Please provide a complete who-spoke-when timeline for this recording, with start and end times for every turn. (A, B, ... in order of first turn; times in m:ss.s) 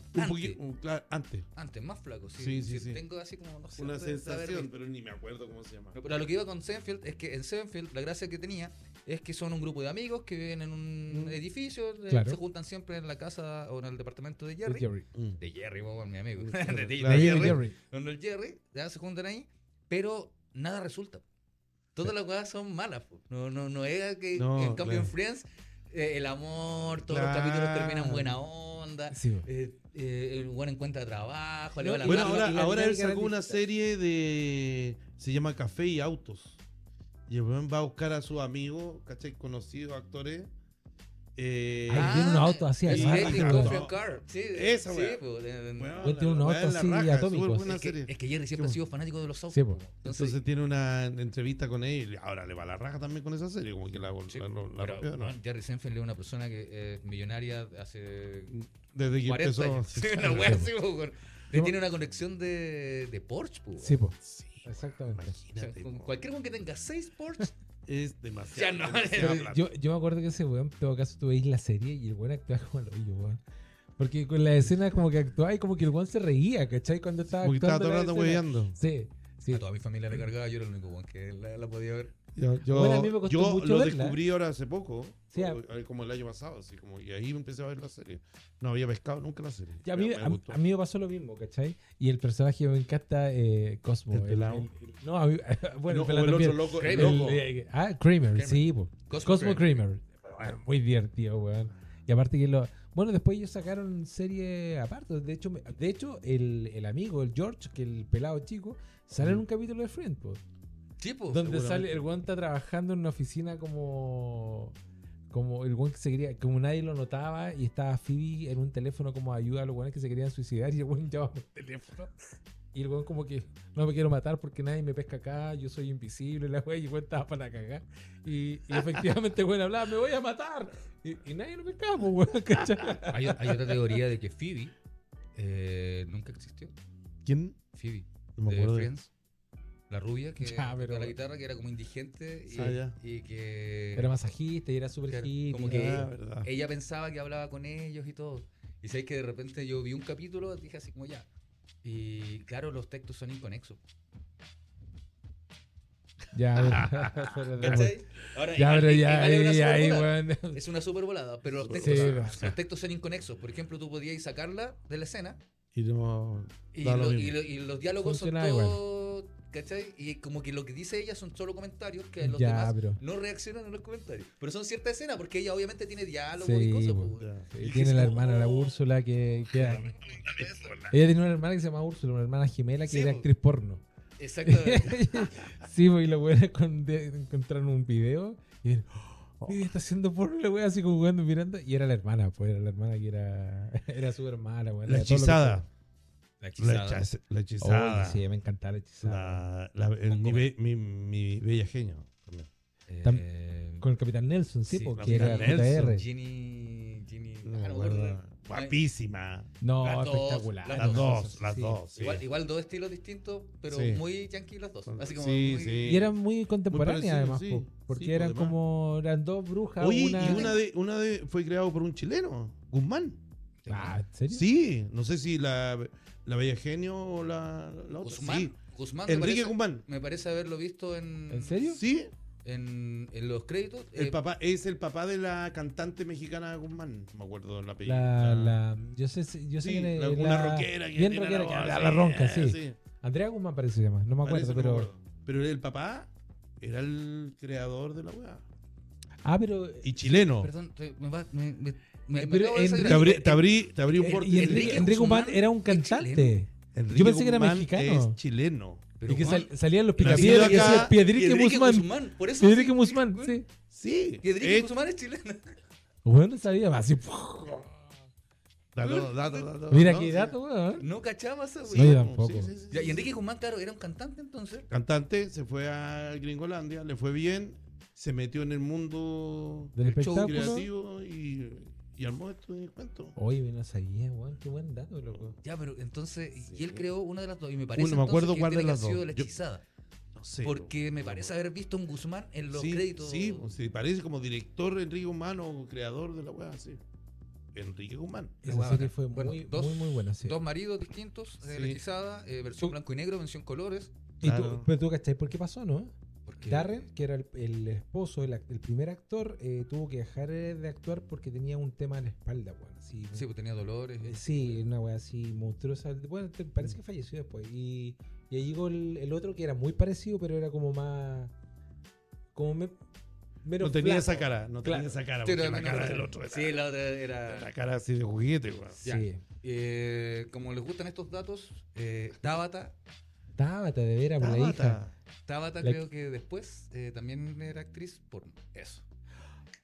0:00.1-0:01.5 A
0:00.1-0:00.6 B
0:01.6-0:04.7 B
0:02.4-0:03.0 A
0:03.8-0:06.0 A
0:05.9-0:14.9 B
0:11.1-0:11.4 A
0:12.1-0:12.4 C
0:14.6-0:15.0 C
0:15.1-0:15.4 A
0:15.4-0:21.2 B
0:16.4-0:17.6 A
0:17.0-0:17.8 C
0:21.9-0:32.7 B
0:24.3-0:25.1 A
0:26.9-0:28.4 A
0:29.1-0:29.5 C
0:31.8-0:33.6 C
0:32.0-0:36.6 A
0:37.3-0:40.5 A
0:41.4-0:45.2 A
0:41.9-0:43.8 C
0:41.9-0:46.0 B
0:45.8-0:48.8 A
0:46.0-0:47.7 C
0:47.6-0:50.4 B
0:49.5-0:49.8 C
0:50.0-0:55.3 A
0:54.3-0:58.6 B
0:58.5-1:00.7 A
0:59.2-1:04.0 B
1:00.2-1:00.7 C
1:03.8-1:05.4 C
1:04.2-1:06.2 A
1:05.6-1:07.5 B
1:07.8-1:09.6 A
1:08.5-1:09.5 B
1:09.2-1:13.4 C
1:14.0-1:19.6 C
1:17.4-1:18.8 A
1:19.5-1:22.1 B
1:22.3-1:30.6 A
1:22.6-1:24.2 C
1:25.3-1:25.6 C
1:29.8-1:50.4 C
1:34.1-1:34.7 A
1:35.9-1:37.4 A
1:36.7-1:37.4 B
1:38.3-1:39.7 B
1:49.2-1:49.4 A
1:51.0-1:51.5 B
1:51.3-1:54.8 C
1:51.4-1:52.0 A
1:55.3-2:02.1 C
2:02.7-2:13.6 C
2:13.1-2:14.7 B
2:15.3-2:16.7 B
2:17.2-2:17.6 A
2:17.7-2:19.1 B
2:18.4-2:18.9 A
2:19.9-2:24.1 B
2:20.4-2:21.1 C
2:22.5-2:23.0 A
2:24.0-2:26.1 C
2:25.1-2:31.2 B
2:25.6-2:26.5 A
2:31.8-2:33.8 B
2:36.3-2:38.0 C
2:36.6-2:37.9 A
2:37.6-2:45.4 B
2:38.5-2:40.6 C
2:41.5-2:42.6 A
2:41.7-2:42.5 C
2:45.7-2:47.4 A
2:46.7-2:58.8 B
2:48.0-2:48.8 C
2:52.2-2:53.0 C
2:56.4-2:59.9 C
2:57.2-2:57.5 A
2:59.6-3:00.8 B
2:59.6-3:01.0 A
3:00.9-3:03.8 C
3:02.9-3:03.3 B
3:04.2-3:05.3 B
3:04.4-3:15.6 C
3:14.8-3:15.7 A
3:16.4-3:17.1 B
3:16.6-3:18.2 A
3:17.6-3:19.4 C
3:19.0-3:22.5 A
3:20.1-3:20.4 B
3:22.9-3:23.8 B
3:23.8-3:26.1 C
3:24.7-3:28.8 B
3:25.0-3:26.0 A
3:27.4-3:29.5 A
3:29.6-3:31.8 C
3:29.8-3:31.1 B
3:30.7-3:32.2 A
3:32.0-3:36.1 B
3:33.7-3:34.0 A
3:34.9-3:36.1 A
3:35.8-3:40.5 C
3:36.7-3:38.6 A
3:39.8-3:43.2 A
3:40.2-3:40.6 B
3:43.6-3:44.0 B
3:43.7-3:44.4 C
3:44.3-3:49.8 A
3:48.0-3:51.8 B
3:51.3-3:51.8 C
3:51.7-3:52.1 A
3:52.4-3:54.2 B
3:53.9-3:58.6 A
3:57.8-4:04.9 C
3:59.6-4:02.8 A
4:04.2-4:08.4 A
4:09.2-4:09.9 C
4:09.8-4:10.5 A
4:10.4-4:13.4 B
4:12.1-4:13.4 C
4:12.8-4:15.0 A
4:13.9-4:18.2 C
4:14.0-4:16.4 B
4:16.7-4:18.9 A
4:19.0-4:23.4 B
4:19.1-4:23.4 C
4:20.0-4:21.0 A
4:23.7-4:24.7 A
4:24.2-4:25.5 B
4:26.0-4:27.7 C
4:28.7-4:30.4 A
4:28.8-4:29.5 B
4:29.7-4:30.9 C
4:30.8-4:32.0 B
4:31.6-4:33.1 A
4:31.7-4:32.5 C
4:32.7-4:34.7 B
4:34.7-4:43.1 A
4:39.8-4:40.7 C
4:39.8-4:40.7 B
4:43.2-4:45.4 C
4:45.4-4:49.6 B
4:46.4-4:46.9 A
4:47.7-4:49.3 A
4:50.1-4:51.3 A
4:50.4-4:53.4 B
4:52.5-4:56.8 A
4:57.5-4:58.4 A
4:58.4-5:00.4 C
4:58.4-5:03.9 B
5:01.4-5:01.8 A
5:04.2-5:13.3 C
5:04.2-5:04.7 A
5:06.2-5:06.9 B
5:13.1-5:14.6 B
5:14.0-5:21.3 C
5:22.3-5:22.8 C
5:23.4-5:25.0 C
5:23.6-5:26.6 A
5:25.2-5:27.5 B
5:27.3-5:28.8 A
5:28.8-5:29.2 C
5:28.8-5:32.7 B
5:33.4-5:34.8 C
5:34.2-5:34.9 A
5:35.2-5:38.8 B